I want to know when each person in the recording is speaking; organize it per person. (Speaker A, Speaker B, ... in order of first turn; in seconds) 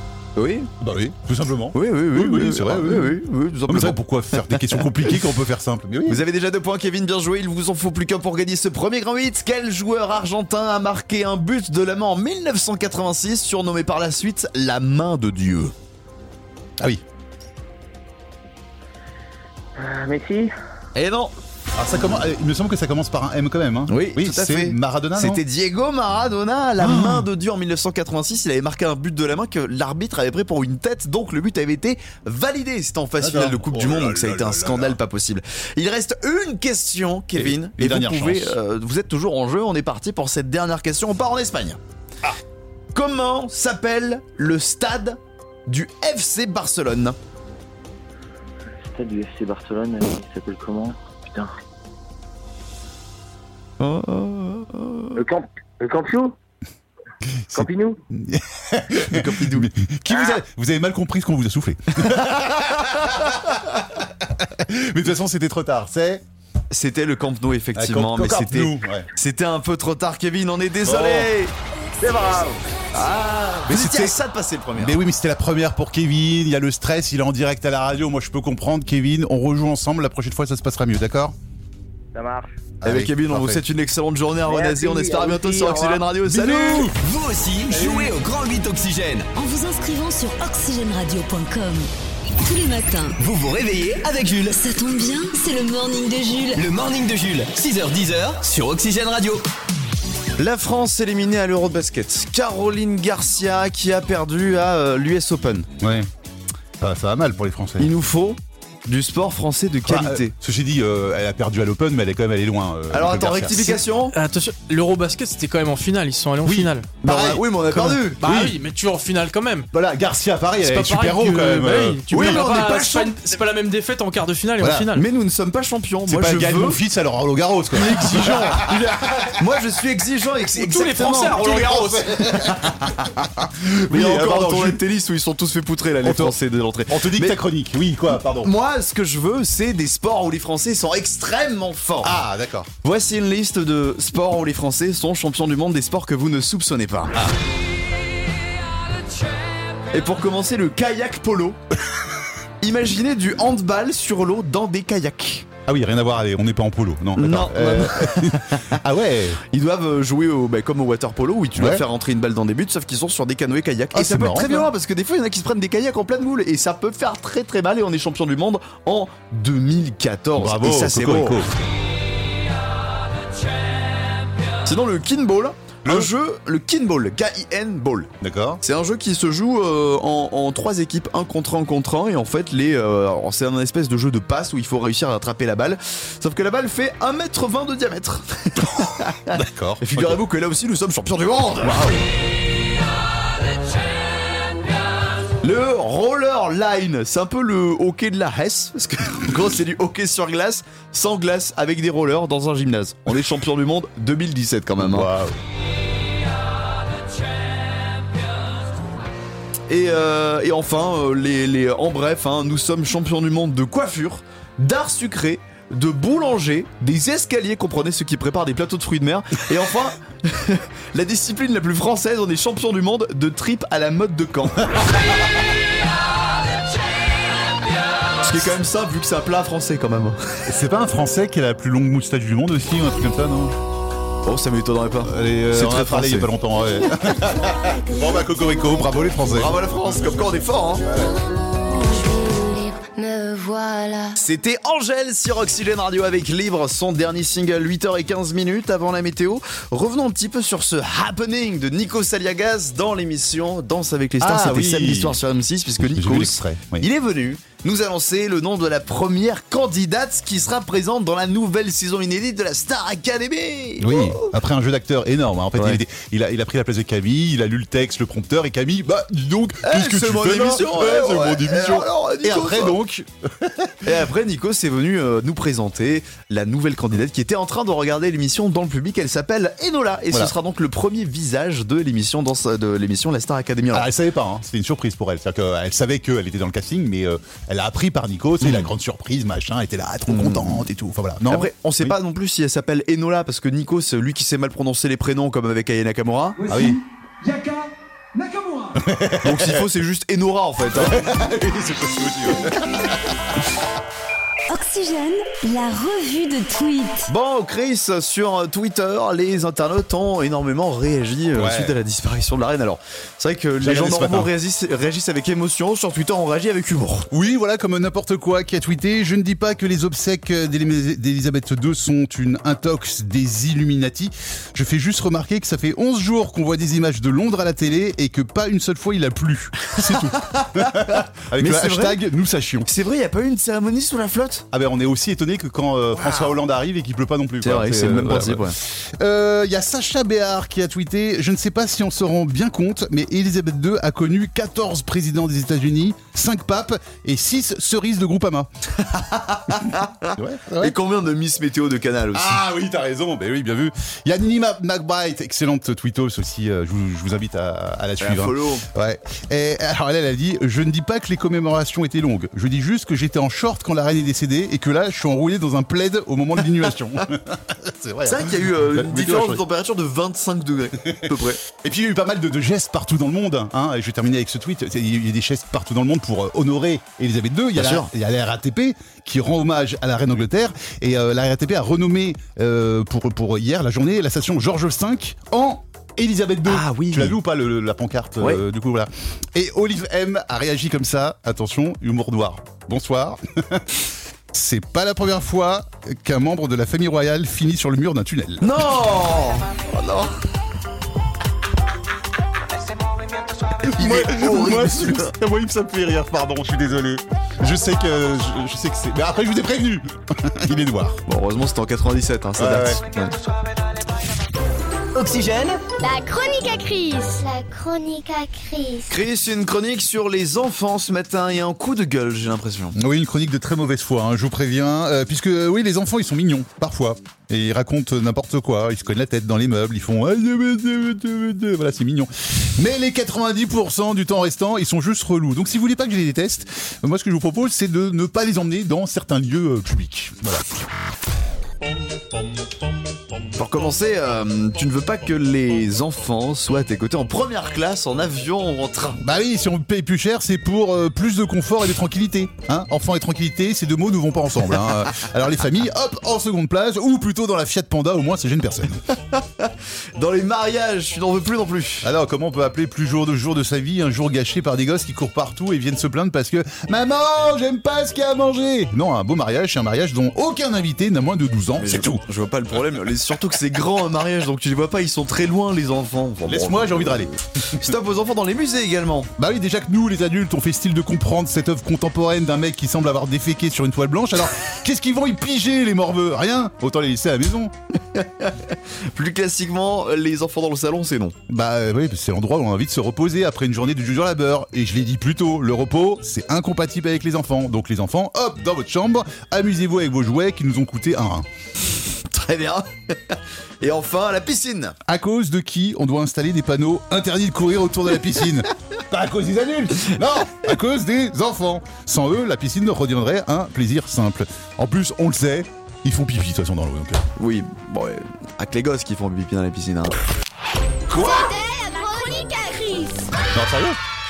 Speaker A: 0.3-0.7, 1.7-4.9, 6.1-15.7, 20.9-21.3, 23.9-41.8, 42.9-47.2, 53.8-55.2, 59.0-59.7, 66.7-71.5, 72.9-75.0, 82.8-86.9, 100.4-105.7, 107.8-110.3, 112.9-114.1, 117.0-118.2, 122.1-123.1, 124.9-126.8, 127.9-128.6, 129.3-131.7, 132.4-133.1, 133.8-137.4, 138.3-142.2, 142.8-147.3, 149.9-151.6, 152.6-155.5, 157.2-158.8, 159.4-171.4, 174.6-178.1, 178.6-192.0, 195.4-205.1, 209.7-224.8, 228.2-230.4, 234.2-236.3, 239.3-240.9, 244.2-264.3, 265.6-265.8, 269.6-272.8, 273.8-283.9, 288.4-288.7, 290.1-290.6, 291.2-296.4, 299.2-301.1, 307.1-317.1, 330.1-332.0, 332.6-334.5, 337.4-338.6, 348.8-352.4, 358.0-358.6, 368.0-371.4, 377.6-377.9, 386.4-387.2, 398.4-400.2, 403.6-405.1, 411.1-413.1, 418.9-422.7, 443.3-449.0, 459.1-461.9, 471.6-479.1, 487.9-491.1, 501.9-504.8, 517.2-520.0
Speaker B: 0.8-6.2, 21.7-25.4, 26.8-27.3, 33.2-35.0, 37.3-38.6, 57.5-66.2, 67.7-69.1, 70.8-71.3, 73.7-74.2, 74.8-81.3, 82.8-83.6, 86.2-87.0, 105.8-106.1, 106.8-107.9, 109.8-113.8, 116.4-118.6, 119.7-122.4, 124.6-124.9, 126.0-129.2, 131.3-134.8, 136.0-138.5, 142.0-142.7, 155.7-159.4, 161.6-161.8, 163.9-164.7, 170.4-171.5, 175.8-176.1, 178.2-178.6, 189.3-190.2, 191.6-192.0, 204.8-205.4, 230.5-233.6, 235.0-240.0, 240.8-241.1, 254.2-255.2, 255.8-256.9, 263.8-273.9, 283.7-291.9, 296.5-296.8, 298.7-299.6, 300.7-303.1, 311.3-311.7, 313.6-314.3, 317.1-332.7, 334.5-348.5, 350.1-350.7, 352.1-369.4, 370.8-398.8, 403.6-411.0, 412.4-412.8, 422.7-440.5, 449.0-458.8, 461.8-472.0, 476.2-477.7, 479.2-487.5, 491.3-501.3, 504.9-517.0, 523.3-523.8
Speaker C: 19.8-20.5, 48.8-51.5, 55.1-56.3, 57.5-58.0, 72.0-72.6, 82.1-82.6, 84.5-86.0, 87.7-88.1
Speaker D: 86.9-89.3, 93.2-94.6, 96.5-99.4, 414.9-415.6
Speaker E: 89.3-91.9, 92.4-93.2, 94.5-96.6, 304.5-307.1
Speaker F: 114.1-116.9, 117.7-119.7, 120.6-125.1, 127.8-129.3, 130.5-132.2
Speaker G: 241.0-244.2, 415.8-418.9, 520.9-523.1